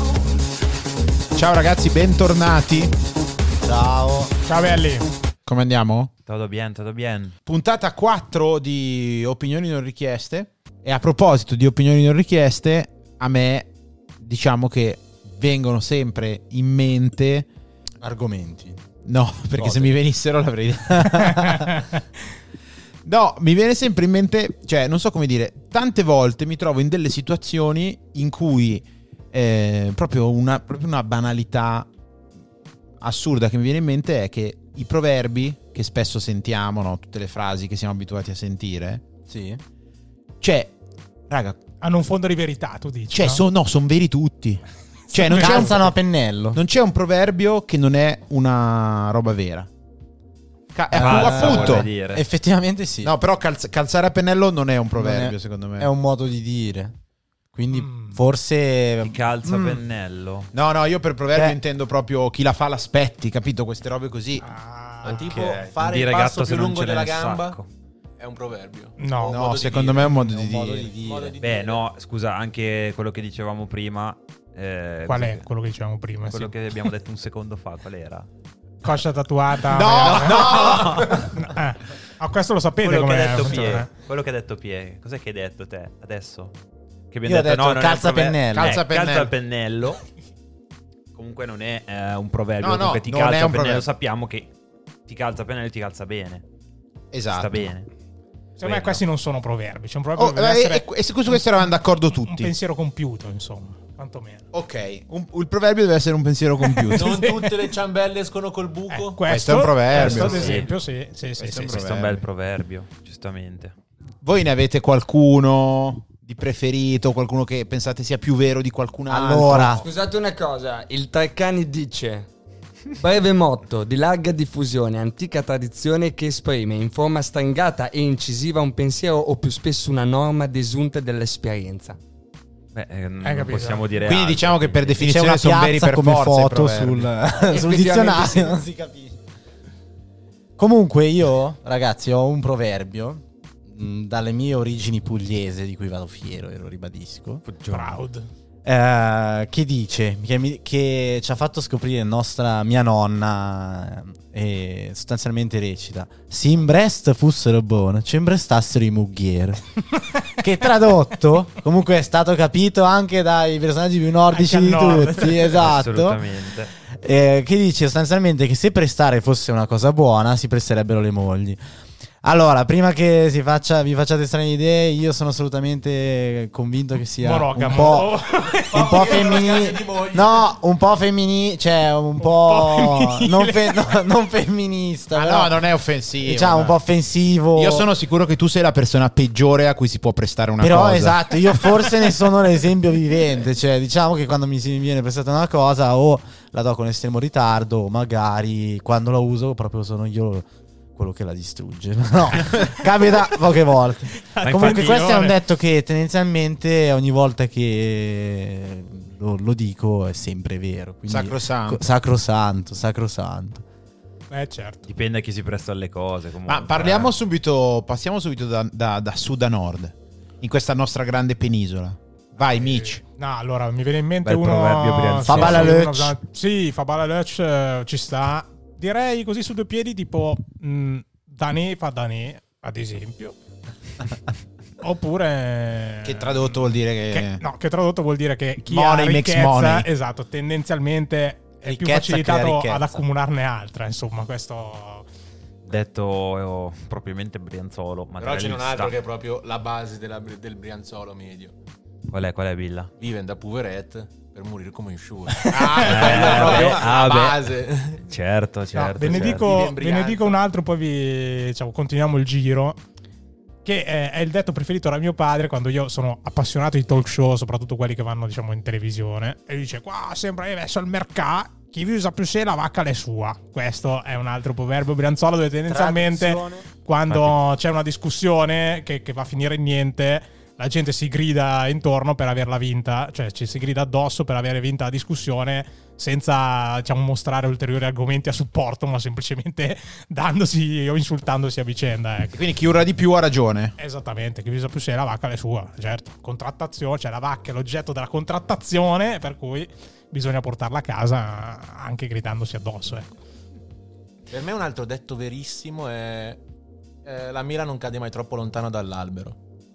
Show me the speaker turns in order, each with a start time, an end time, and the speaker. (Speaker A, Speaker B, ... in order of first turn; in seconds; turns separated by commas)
Speaker A: 1.3-2.9, Speaker B: 3.6-4.3, Speaker C: 4.4-5.1, Speaker A: 5.5-6.1, Speaker D: 6.2-7.4, Speaker A: 7.5-13.7, Speaker A: 14.2-17.5, Speaker B: 18.0-18.8, Speaker A: 19.1-21.8, Speaker B: 19.6-20.0, Speaker C: 21.5-21.8, Speaker A: 23.0-31.9, Speaker A: 33.0-39.0, Speaker B: 39.3-39.6, Speaker A: 40.4-40.7, Speaker A: 41.3-41.6, Speaker C: 41.8-43.4, Speaker A: 43.1-46.0, Speaker B: 45.2-46.6, Speaker A: 46.5-49.7, Speaker A: 50.7-51.9, Speaker B: 50.9-53.1, Speaker D: 50.9-52.2, Speaker A: 53.0-55.9, Speaker B: 54.9-56.9, Speaker B: 57.5-59.8, Speaker C: 57.7-58.2, Speaker D: 59.0-60.5, Speaker A: 60.5-64.5, Speaker B: 61.3-61.6, Speaker C: 64.4-65.4, Speaker E: 65.0-67.6, Speaker B: 65.2-65.6, Speaker D: 65.8-67.7, Speaker E: 68.2-70.2, Speaker C: 69.0-69.5, Speaker A: 69.2-70.9, Speaker B: 70.0-71.3, Speaker E: 71.0-71.8, Speaker D: 71.4-75.5, Speaker C: 75.1-76.5, Speaker D: 76.3-78.3, Speaker C: 78.8-83.9, Speaker A: 79.6-81.3, Speaker D: 80.1-81.2, Speaker D: 82.8-86.5, Speaker D: 87.1-90.0, Speaker B: 87.2-88.8, Speaker A: 88.5-89.3, Speaker D: 91.1-94.5, Speaker A: 92.6-93.9, Speaker D: 95.1-96.4, Speaker A: 97.1-97.7, Speaker D: 97.3-97.9, Speaker C: 98.6-101.4, Speaker D: 98.6-99.0, Speaker A: 100.2-102.5, Speaker C: 102.2-104.4, Speaker A: 104.5-107.3, Speaker C: 106.7-107.7, Speaker E: 106.9-109.2, Speaker C: 108.9-111.8, Speaker A: 109.2-110.7, Speaker D: 109.9-110.7, Speaker E: 109.9-110.6, Speaker A: 111.4-112.2, Speaker D: 111.6-113.7, Speaker A: 114.2-119.8, Speaker B: 119.1-119.8, Speaker F: 119.8-122.3, Speaker F: 123.0-132.0, Speaker D: 132.7-135.0, Speaker C: 133.2-133.9, Speaker A: 134.0-137.1, Speaker B: 135.0-139.2, Speaker F: 137.3-138.6, Speaker B: 140.6-147.4, Speaker D: 147.4-148.0, Speaker C: 147.7-148.3, Speaker B: 148.6-166.3, Speaker C: 164.3-165.5, Speaker D: 165.6-166.7, Speaker B: 166.9-171.6, Speaker B: 172.2-178.2, Speaker C: 177.2-179.3, Speaker E: 178.3-180.5, Speaker B: 178.7-185.6, Speaker C: 182.2-183.8, Speaker A: 185.1-186.8, Speaker B: 186.2-187.9, Speaker A: 187.6-191.3, Speaker B: 190.6-213.6, Speaker C: 204.1-205.4, Speaker D: 204.4-205.0, Speaker A: 211.1-211.8, Speaker C: 214.3-214.8, Speaker D: 214.8-217.1, Speaker A: 216.4-223.0, Speaker C: 222.5-233.3, Speaker D: 224.2-225.8, Speaker B: 225.2-226.2, Speaker C: 234.8-245.1, Speaker A: 236.0-237.4, Speaker A: 238.6-239.9, Speaker B: 241.7-243.0, Speaker A: 241.7-242.5, Speaker D: 245.7-249.0, Speaker E: 248.2-251.5, Speaker D: 252.1-252.9, Speaker E: 253.0-258.0, Speaker C: 255.3-256.2, Speaker A: 255.5-256.8, Speaker D: 255.8-259.6, Speaker C: 258.7-262.8, Speaker E: 259.0-260.4, Speaker C: 263.6-292.4, Speaker B: 275.7-276.6, Speaker D: 277.1-277.4, Speaker A: 292.3-293.7, Speaker C: 293.8-303.1, Speaker E: 304.3-306.4, Speaker E: 307.0-309.4